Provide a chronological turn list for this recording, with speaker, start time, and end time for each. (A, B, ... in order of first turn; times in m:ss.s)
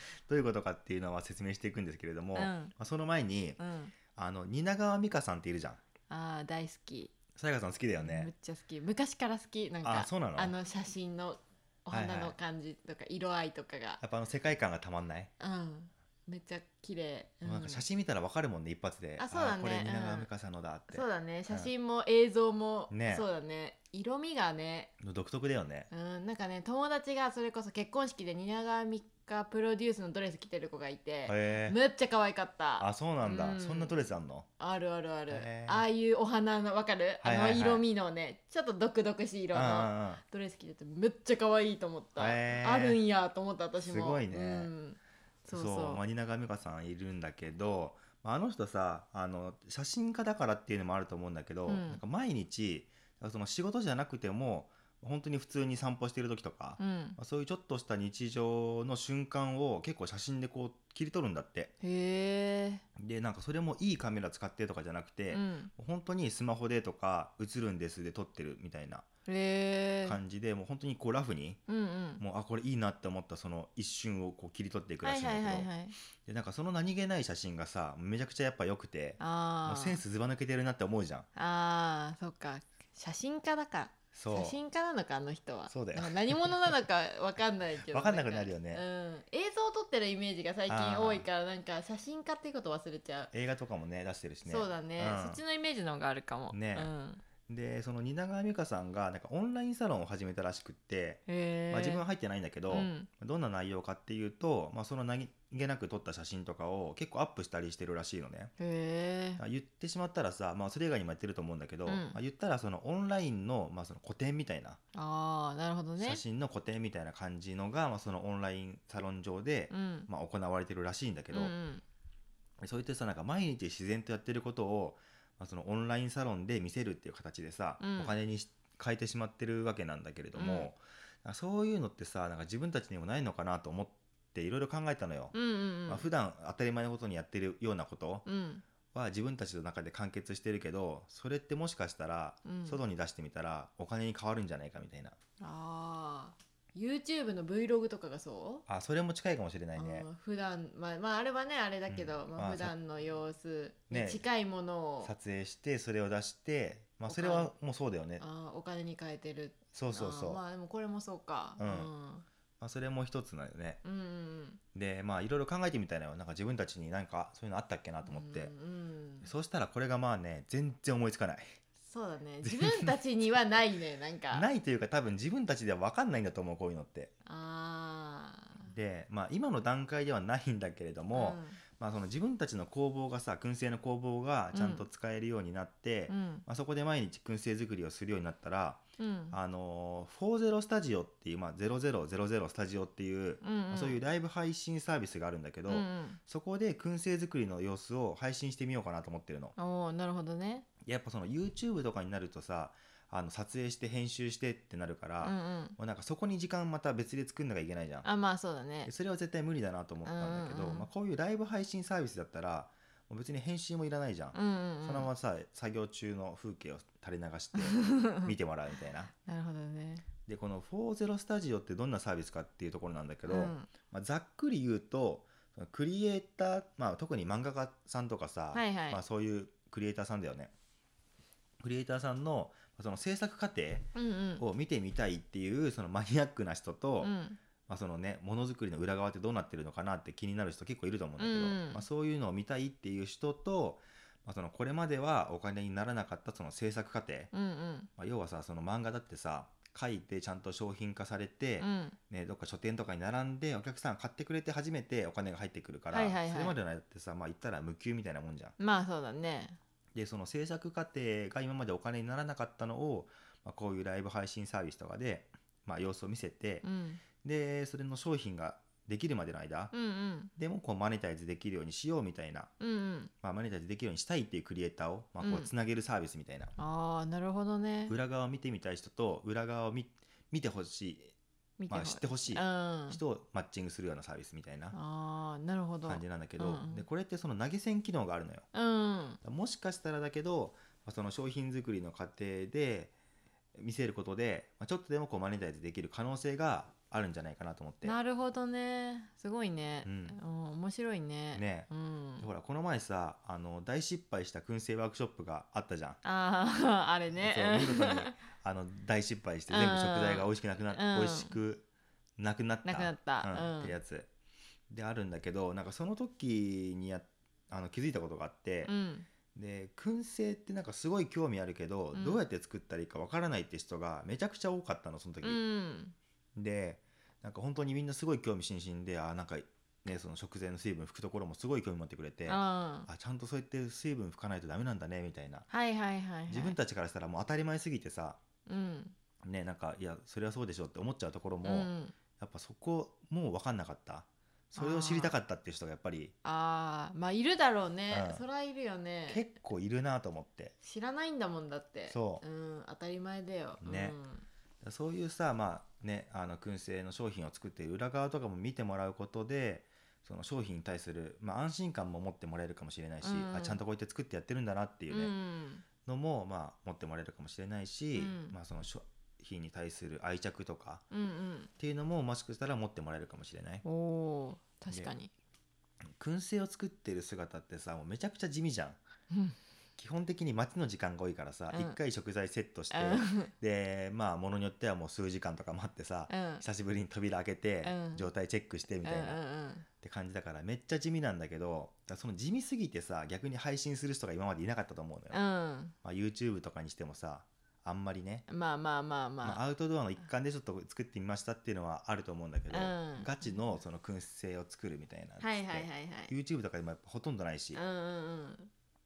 0:00.3-0:03.6 A
0:02.4-0:02.7 B
0:03.6-0:03.9 B
0:04.2-0:05.8 A
0:06.1-0:07.1 B
0:07.4-0:08.3 A
0:08.0-0:14.0 B
0:09.8-0:10.6 A
0:11.9-0:12.4 A
0:14.0-0:15.3 A
0:15.4-0:17.8 B
0:17.4-0:21.7 A
0:19.2-0:20.3 B
0:20.9-0:24.9 B
0:22.9-0:23.3 A
0:25.0-0:25.9 A
0:25.9-0:34.0 B
0:31.3-0:31.8 A
0:32.8-0:34.5 A
0:34.6-0:46.0 B
0:35.3-0:35.9 A
0:37.2-0:37.8 A
0:39.5-0:40.2 A
0:42.2-0:43.0 A
0:43.8-0:44.7 A
0:45.5-1:01.7 A
0:51.7-0:52.0 B
0:56.8-0:57.2 B
1:01.8-1:02.8 B
1:03.0-1:09.1 A
1:05.3-1:05.7 B
1:09.3-1:10.2 B
1:10.0-1:11.6 A
1:11.7-1:12.2 B
1:12.2-1:15.7 A
1:15.0-1:16.0 B
1:16.2-1:21.3 A
1:19.2-1:20.0 B
1:21.4-1:33.3 B
1:24.1-1:24.6 A
1:25.7-1:26.8 A
1:27.8-1:28.8 A
1:30.7-1:31.3 A
1:33.3-1:35.4 A
1:34.4-1:37.2 B
1:36.5-1:36.9 A
1:37.5-1:48.5 A
1:41.3-1:42.0 B
1:42.7-1:43.1 B
1:48.6-1:49.4 B
1:49.4-1:54.8 A
1:51.9-1:52.2 B
1:54.9-1:56.2 B
1:56.0-2:01.5 A
1:59.7-2:00.1 B
2:01.3-2:01.8 B
2:02.6-2:15.4 A
2:07.8-2:08.1 B
2:10.4-2:10.7 B
2:15.3-2:16.1 B
2:15.9-2:18.2 A
2:18.2-2:18.6 B
2:18.9-2:25.2 A
2:22.4-2:22.8 B
2:25.4-2:28.6 B
2:28.7-2:30.1 A
2:29.8-2:35.1 B
2:31.9-2:32.7 A
2:33.9-2:34.2 A
2:35.0-2:38.2 A
2:37.1-2:37.5 B
2:38.2-2:42.3 B
2:39.7-2:40.4 A
2:41.6-2:41.9 A
2:42.6-2:43.8 A
2:43.8-2:44.6 B
2:44.7-2:48.5 A
2:48.0-2:49.3 B
2:49.2-2:51.5 A
2:51.8-2:54.5 B
2:52.4-2:53.0 A
2:54.3-2:57.1 A
2:57.2-2:58.7 B
2:58.6-3:19.6 A
3:01.1-3:01.6 B
3:04.5-3:04.9 B
3:06.1-3:06.4 B
3:09.0-3:09.4 B
3:13.4-3:14.0 B
3:15.7-3:16.2 B
3:19.6-3:20.6 B
3:20.8-3:28.1 A
3:25.2-3:25.8 B
3:28.0-3:28.9 B
3:28.8-3:39.1 A
3:30.0-3:30.9 B
3:34.3-3:35.1 B
3:37.6-3:38.3 B
3:39.2-3:40.0 B
3:40.3-3:50.5 A
3:43.3-3:43.7 B
3:48.5-3:49.0 B
3:51.6-3:57.1 A
3:54.0-3:54.4 B
3:57.0-3:57.4 B
3:57.7-4:07.3 A
4:01.2-4:01.8 B
4:07.3-4:07.9 B
4:08.0-4:18.6 A
4:11.6-4:12.0 B
4:15.9-4:16.6 B
4:18.6-4:19.6 B
4:19.9-4:26.6 A
4:26.6-4:27.0 B
4:27.2-4:29.7 A
4:29.7-4:30.3 B
4:30.4-4:32.5 A
4:32.6-4:33.1 B
4:33.2-4:36.6 A
4:35.2-4:35.5 B
4:36.6-4:38.0 B
4:37.9-4:41.1 A
4:41.6-4:43.0 B
4:41.7-4:44.8 A
4:44.7-4:46.8 B
4:45.9-4:48.5 A
4:48.5-4:49.2 B
4:49.2-4:52.9 A
4:53.6-4:58.0 A
4:57.8-5:02.3 B
4:59.8-5:00.2 A
5:01.3-5:06.0 A
5:06.0-5:08.2 B
5:07.1-5:11.7 A
5:09.5-5:11.4 B
5:12.2-5:14.1 A
5:12.6-5:13.8 B
5:14.7-5:18.7 A
5:18.7-5:19.1 B
5:19.3-5:25.4 A
5:21.9-5:22.2 B
5:25.2-5:26.0 B
5:26.4-5:35.5 A
5:32.3-5:32.9 B
5:35.5-5:36.6 B
5:36.3-5:38.2 A
5:38.5-5:39.0 B
5:39.2-5:46.1 A
5:41.4-5:42.0 B
5:44.6-5:45.2 B
5:46.2-5:49.2 B
5:47.9-5:48.2 A
5:49.1-5:50.5 A
5:50.6-5:54.3 B
5:51.9-5:52.2 A
5:53.6-5:54.0 A
5:54.6-6:05.1 A
6:03.0-6:03.6 B
6:04.9-6:05.6 B
6:05.8-6:10.8 A
6:08.0-6:08.4 B
6:10.9-6:11.5 B
6:11.6-6:13.6 A
6:13.6-6:15.1 B
6:16.0-6:18.8 A
6:19.1-6:19.4 B
6:19.8-6:29.2 A
6:21.5-6:21.8 B
6:22.7-6:23.3 B
6:26.1-6:26.4 B
6:27.6-6:28.1 B
6:28.8-6:29.7 B
6:29.8-6:35.2 A
6:35.1-6:35.8 B
6:35.8-6:38.3 A
6:38.3-6:39.4 B
6:39.2-6:47.6 A
6:42.5-6:43.4 B
6:45.2-6:46.1 B
6:47.5-6:48.5 B